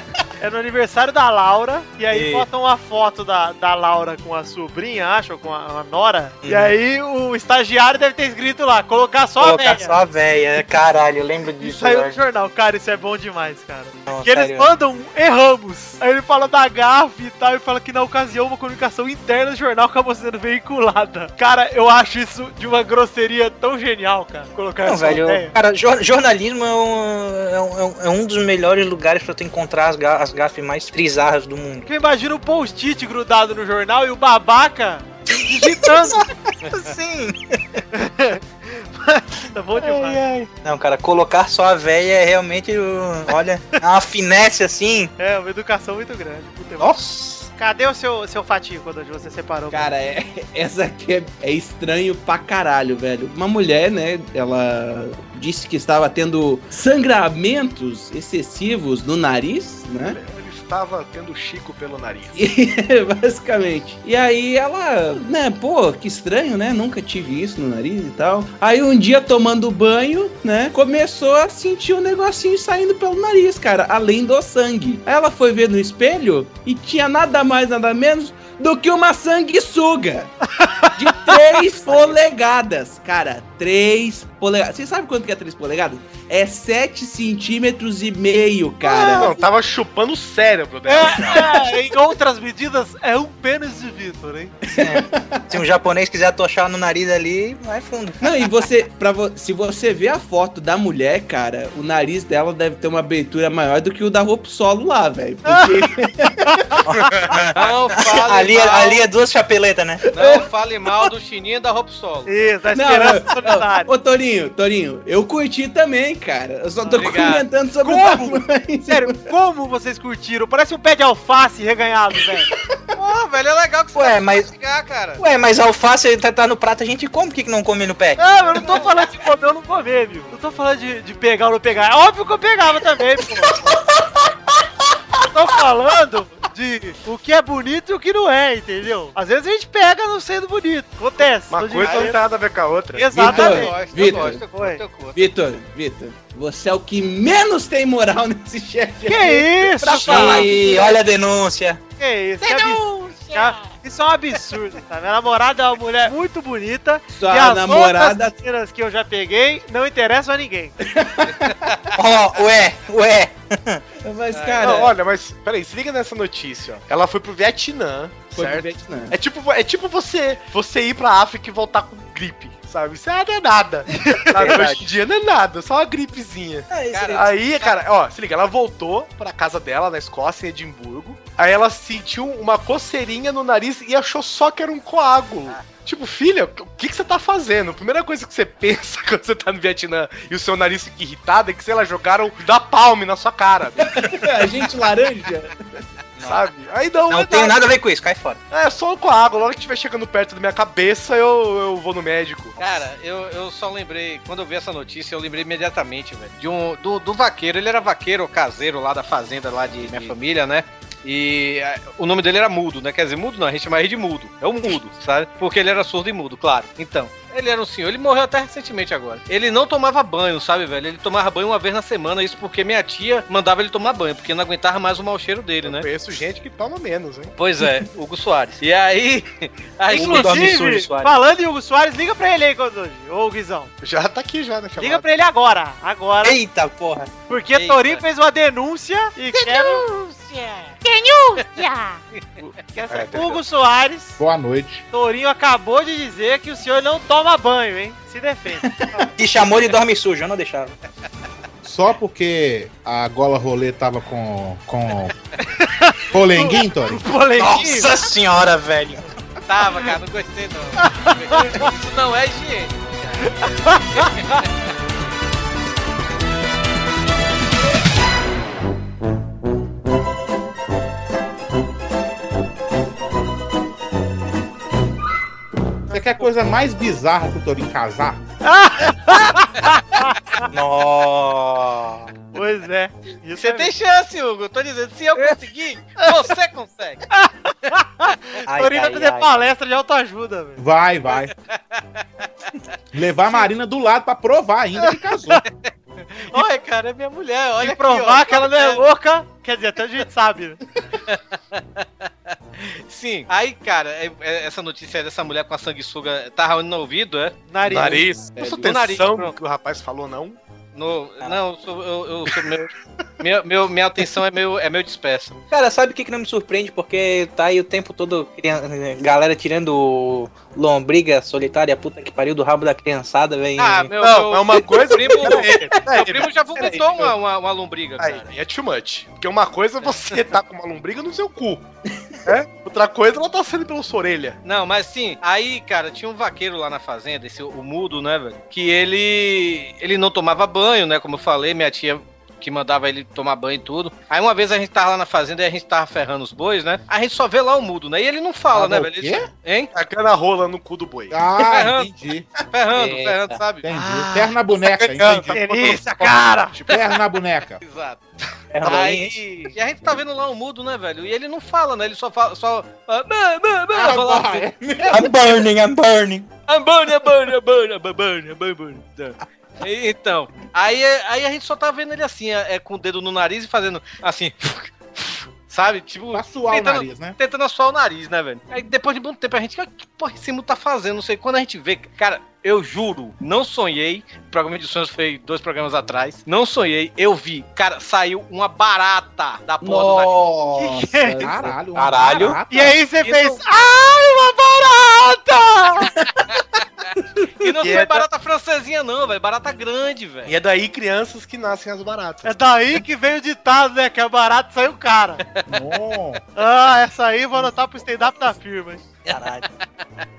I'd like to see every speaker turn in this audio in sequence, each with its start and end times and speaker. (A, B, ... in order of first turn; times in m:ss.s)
0:00.4-0:10.0 A
0:02.1-0:02.5 B
0:06.4-0:06.7 B
0:09.4-0:12.2 B
0:11.6-0:25.5 A
0:14.1-0:14.7 B
0:24.8-0:31.8 B
0:31.8-0:36.2 A
0:35.3-0:37.8 B
0:37.9-0:40.2 A
0:39.8-0:45.1 B
0:45.2-0:47.0 A
0:46.8-0:47.5 B
0:47.6-0:49.9 A
0:49.7-1:00.2 C
1:00.0-1:02.4 D
1:02.3-1:20.3 C
1:20.6-1:20.9 A
1:20.9-1:29.3 C
1:28.8-1:29.4 A
1:29.0-1:31.8 D
1:30.8-1:34.5 A
1:34.7-1:35.6 C
1:34.8-1:38.5 B
1:38.2-1:46.5 C
1:45.4-1:45.7 A
1:46.4-1:46.8 A
1:46.8-1:50.0 B
1:47.0-1:47.3 D
1:47.5-1:49.0 E
1:50.0-1:50.4 C
1:50.1-1:52.3 E
1:52.2-1:53.9 A
1:52.7-1:59.3 C
1:56.9-1:57.5 E
1:57.8-2:02.5 A
2:02.9-2:05.2 E
2:03.9-2:04.5 B
2:05.2-2:08.8 B
2:08.2-2:13.7 A
2:15.2-2:22.2 A
2:21.5-2:23.3 D
2:21.8-2:22.1 E
2:22.9-2:24.8 A
2:23.1-2:24.4 C
2:23.2-2:25.2 E
2:25.1-2:30.7 C
2:29.0-2:30.9 A
2:29.8-2:31.8 B
2:32.0-2:40.8 A
2:32.5-2:33.4 B
2:37.1-2:38.3 C
2:40.8-2:41.5 C
2:41.3-2:42.0 E
2:41.9-2:43.8 B
2:44.0-2:44.9 C
2:44.3-2:44.8 E
2:44.6-3:14.2 D
2:48.3-2:49.2 C
2:53.9-2:54.4 A
2:54.3-2:54.9 B
2:56.7-2:57.3 B
2:56.9-2:57.8 E
3:13.8-3:15.8 C
3:16.2-3:16.4 B
3:16.2-3:17.7 D
3:17.1-3:18.4 B
3:18.5-3:22.6 D
3:22.6-3:45.9 E
3:45.6-3:47.3 D
3:47.4-3:50.5 E
3:49.9-3:51.1 B
3:49.9-3:53.7 A
3:53.8-3:55.0 D
3:54.8-3:56.4 A
3:56.2-3:57.1 B
3:57.3-3:59.9 A
3:57.5-3:58.0 E
4:00.9-4:01.4 B
4:02.4-4:04.2 A
4:02.9-4:03.4 D
4:04.2-4:04.8 F
4:04.9-4:09.1 A
4:09.2-4:10.7 B
4:11.6-4:15.1 F
4:15.4-4:17.9 A
4:16.1-4:17.0 F
4:17.4-4:19.0 B
4:19.5-4:23.4 E
4:20.8-4:21.7 A
4:23.4-4:24.1 A
4:23.9-4:24.5 E
4:35.9-4:38.2 F
4:38.4-4:40.4 A
4:40.5-4:42.1 B
4:42.3-4:43.7 A
4:43.4-4:47.0 E
4:47.1-4:50.6 A
4:48.5-4:49.3 B
4:50.6-4:51.3 F
4:51.5-4:51.8 E
4:52.9-4:55.4 F
4:54.8-4:55.4 A
4:56.2-4:58.8 E
4:57.6-5:00.6 A
5:01.1-5:07.4 E
5:07.5-5:08.1 A
5:07.6-5:10.4 D
5:08.4-5:08.7 C
5:08.4-5:09.3 E
5:10.7-5:15.4 E
5:15.5-5:23.9 B
5:23.6-5:28.3 E
5:24.0-5:27.1 D
5:28.0-5:31.7 D
5:29.8-5:30.1 E
5:32.2-5:34.4 D
5:34.4-5:49.7 E
5:48.5-5:49.3 F
5:49.7-5:51.2 D
5:51.1-5:52.3 F
5:51.4-5:51.9 E
5:52.5-5:54.4 E
5:52.7-5:53.4 B
5:53.6-5:55.4 F
5:54.9-5:55.7 D
5:55.3-5:56.1 E
5:55.3-5:56.5 A
5:56.5-5:57.6 F
5:56.7-5:56.9 E
5:57.6-6:04.5 E
5:58.5-5:59.5 B
6:03.7-6:05.3 F
6:04.9-6:06.3 B
6:06.5-6:30.2 E
6:16.1-6:17.2 F
6:29.6-6:31.6 C
6:30.5-6:31.2 A
6:31.2-6:32.8 F
6:31.7-6:32.4 B
6:32.5-6:35.9 A
6:33.0-6:33.4 E
6:37.4-6:40.3 E
6:37.6-6:38.0 D
6:40.2-6:42.4 D
6:42.2-6:45.2 A
6:45.3-6:45.6 E
6:45.5-6:46.2 F
6:46.4-6:48.8 A
6:49.0-6:49.5 E
6:49.1-6:49.4 B